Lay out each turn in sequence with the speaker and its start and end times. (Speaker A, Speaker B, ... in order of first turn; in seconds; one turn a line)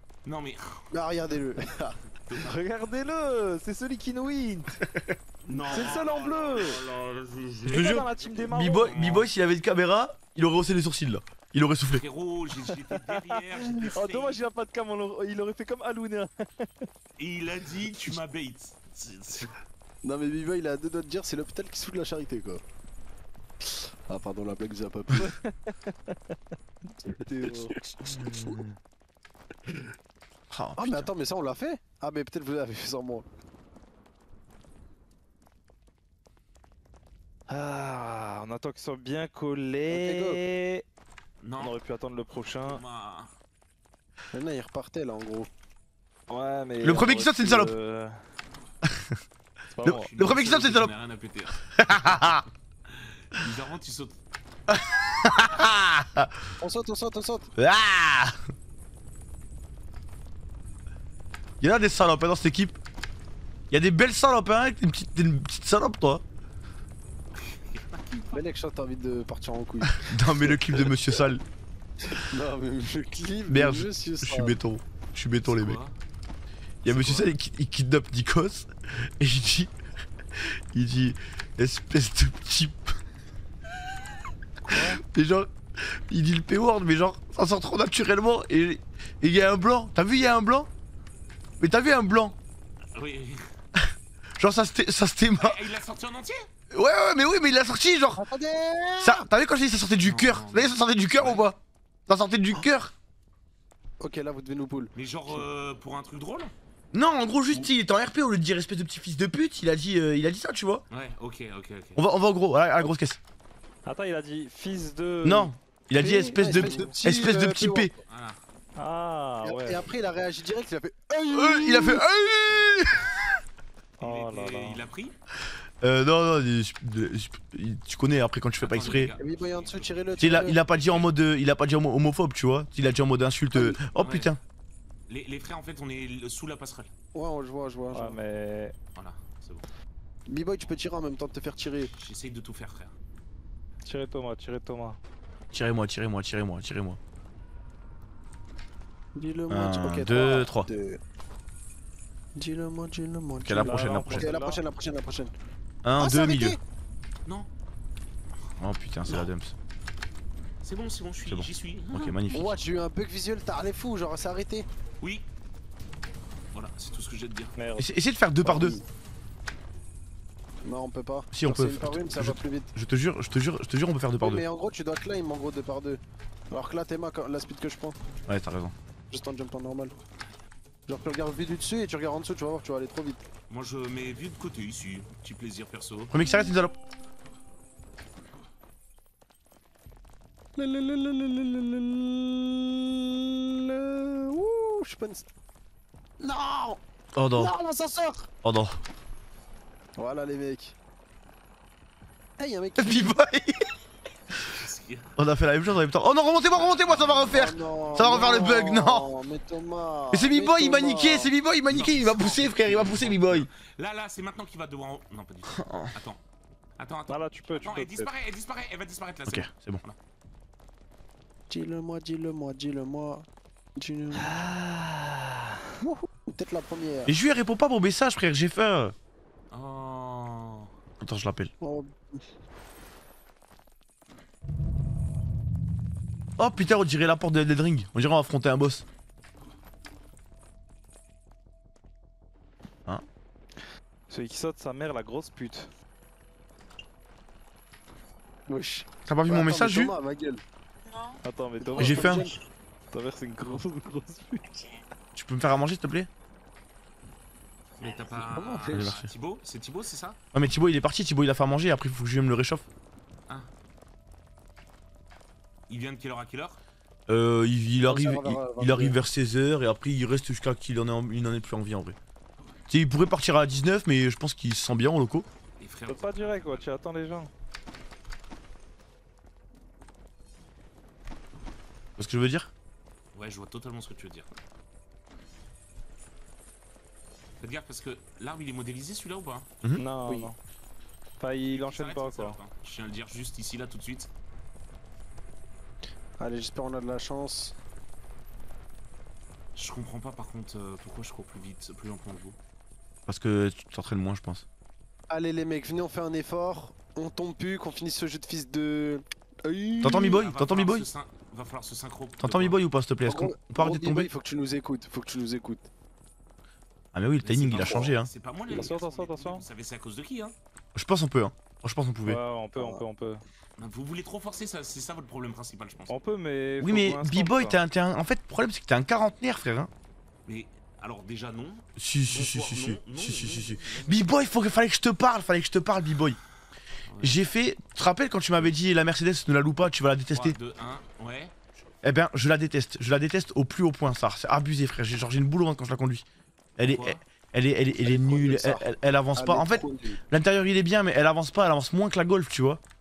Speaker A: 0.2-0.9
Speaker B: 0.9-1.9
Speaker A: 2.2-2.5
Speaker C: 2.3-4.8
Speaker D: 4.8-5.2
Speaker A: 5.4-9.3
Speaker B: 5.5-6.1
Speaker C: 5.7-6.8
Speaker C: 7.7-9.0
Speaker D: 7.7-12.0
Speaker A: 11.9-14.4
Speaker C: 12.9-16.9
Speaker A: 17.2-19.5
Speaker B: 20.0-22.6
Speaker B: 23.6-25.3
Speaker C: 25.2-26.4
Speaker C: 27.1-27.8
Speaker B: 27.4-28.6
Speaker D: 28.3-28.7
Speaker D: 30.5-31.1
Speaker B: 30.8-33.2
Speaker C: 37.5-40.8
Speaker B: 39.9-40.4
Speaker A: 41.4-41.8
Speaker C: 41.6-42.8
Speaker A: 42.6-43.3
Speaker B: 44.3-45.5
Speaker C: 46.3-48.2
Speaker D: 46.8-47.7
Speaker D: 48.8-49.2
Speaker C: 49.7-50.1
Speaker D: 49.8-50.9
Speaker A: 49.9-54.2
Speaker D: 51.8-52.4
Speaker D: 54.7-56.4
Speaker B: 56.6-57.5
Speaker D: 57.6-58.4
Speaker D: 61.6-62.8
Speaker D: 63.7-66.2
Speaker A: 67.3-68.4
Speaker B: 68.3-70.9
Speaker D: 69.9-71.4
Speaker B: 72.1-74.5
Speaker D: 73.5-75.8
Speaker A: 75.4-75.9
Speaker D: 76.8-79.7
Speaker B: 76.9-77.2
Speaker D: 80.3-83.0
Speaker A: 84.6-85.0
Speaker D: 84.7-90.7
Speaker D: 91.6-92.3
Speaker A: 92.9-93.5
Speaker D: 93.8-95.6
Speaker A: 95.3-96.5
Speaker D: 96.7-98.2
Speaker B: 98.2-99.2
Speaker D: 99.0-102.9
Speaker A: 100.0-101.4
Speaker B: 104.0-105.4
Speaker A: 104.9-106.5
Speaker D: 106.9-110.8
Speaker A: 110.9-112.0
Speaker D: 112.0-113.2
Speaker C: 113.8-115.5
Speaker D: 115.2-117.9
Speaker B: 116.0-117.9
Speaker A: 118.1-118.4
Speaker C: 118.8-119.8
Speaker B: 119.4-122.0
Speaker D: 121.3-123.4
Speaker C: 124.0-124.8
Speaker A: 124.0-125.1
Speaker D: 125.8-129.1
Speaker A: 128.6-131.1
Speaker B: 128.8-130.6
Speaker D: 130.2-134.4
Speaker B: 133.5-133.8
Speaker A: 133.9-134.3
Speaker A: 135.1-136.9
Speaker B: 137.1-138.2
Speaker C: 137.9-138.8
Speaker A: 138.9-139.6
Speaker B: 140.3-141.9
Speaker A: 141.8-142.9
Speaker C: 143.8-145.0
Speaker D: 145.5-147.0
Speaker B: 149.1-151.0
Speaker D: 149.5-150.7
Speaker B: 152.3-155.3
Speaker D: 153.4-154.3
Speaker C: 153.5-154.6
Speaker D: 155.8-156.6
Speaker B: 156.0-156.6
Speaker D: 158.6-159.5
Speaker A: 160.6-162.5
Speaker D: 161.2-162.6
Speaker B: 162.3-164.7
Speaker A: 165.0-165.3
Speaker A: 166.5-167.6
Speaker C: 167.6-167.9
Speaker D: 167.8-168.8
Speaker B: 168.4-168.8
Speaker B: 170.6-172.7
Speaker D: 171.3-174.4
Speaker B: 174.2-178.0
Speaker D: 178.3-178.7
Speaker B: 179.1-179.9
Speaker B: 180.9-183.2
Speaker A: 183.5-186.1
Speaker D: 186.1-186.7
Speaker B: 186.2-186.6
Speaker B: 190.6-195.3
Speaker B: 196.2-196.8
Speaker D: 197.1-197.5
Speaker B: 197.3-198.3
Speaker D: 198.4-198.8
Speaker B: 200.0-200.8
Speaker B: 202.4-203.2
Speaker D: 202.8-203.7
Speaker A: 204.4-205.2
Speaker D: 205.2-209.1
Speaker A: 206.5-207.6
Speaker B: 207.3-211.3
Speaker D: 210.1-213.5
Speaker A: 211.7-216.2
Speaker D: 215.5-215.9
Speaker A: 216.8-220.0
Speaker C: 217.1-218.1
Speaker D: 219.3-219.8
Speaker B: 221.5-224.4
Speaker C: 224.1-225.7
Speaker B: 225.8-227.2
Speaker D: 227.1-228.9
Speaker A: 229.5-230.7
Speaker D: 231.0-231.5
Speaker B: 231.6-232.2
Speaker D: 236.4-238.8
Speaker C: 244.1-245.7
Speaker B: 248.5-250.4
Speaker D: 249.1-249.9
Speaker C: 251.1-252.3
Speaker B: 251.6-252.4
Speaker D: 251.8-252.3
Speaker C: 252.9-254.8
Speaker D: 255.1-256.1
Speaker A: 257.8-260.2
Speaker B: 258.1-258.9
Speaker D: 258.7-259.1
Speaker D: 260.3-262.6
Speaker A: 265.7-266.6
Speaker D: 267.1-272.0
Speaker B: 267.9-269.0
Speaker D: 272.7-275.2
Speaker A: 275.6-276.7
Speaker C: 275.9-277.3
Speaker D: 282.0-282.5
Speaker A: 283.1-284.3
Speaker A: 287.4-289.5
Speaker C: 289.7-290.4
Speaker C: 291.2-292.4
Speaker A: 291.5-294.1
Speaker B: 296.2-297.5
Speaker A: 299.6-302.4
Speaker D: 303.1-304.4
Speaker B: 305.1-310.2
Speaker D: 309.8-310.9
Speaker A: 310.1-312.6
Speaker D: 312.2-314.1
Speaker B: 313.1-315.7
Speaker D: 316.9-318.1
Speaker A: 317.2-320.3
Speaker B: 317.6-317.9
Speaker C: 318.5-319.4
Speaker D: 320.7-322.2
Speaker C: 322.0-323.2
Speaker A: 323.6-325.9
Speaker C: 325.9-327.6
Speaker D: 326.6-329.7
Speaker A: 330.2-334.1
Speaker D: 331.8-336.2
Speaker A: 336.9-337.2
Speaker D: 337.0-340.4
Speaker A: 340.1-341.3
Speaker D: 341.8-346.0
Speaker D: 346.6-352.6
Speaker A: 346.6-347.0
Speaker B: 347.8-348.6
Speaker B: 349.1-350.0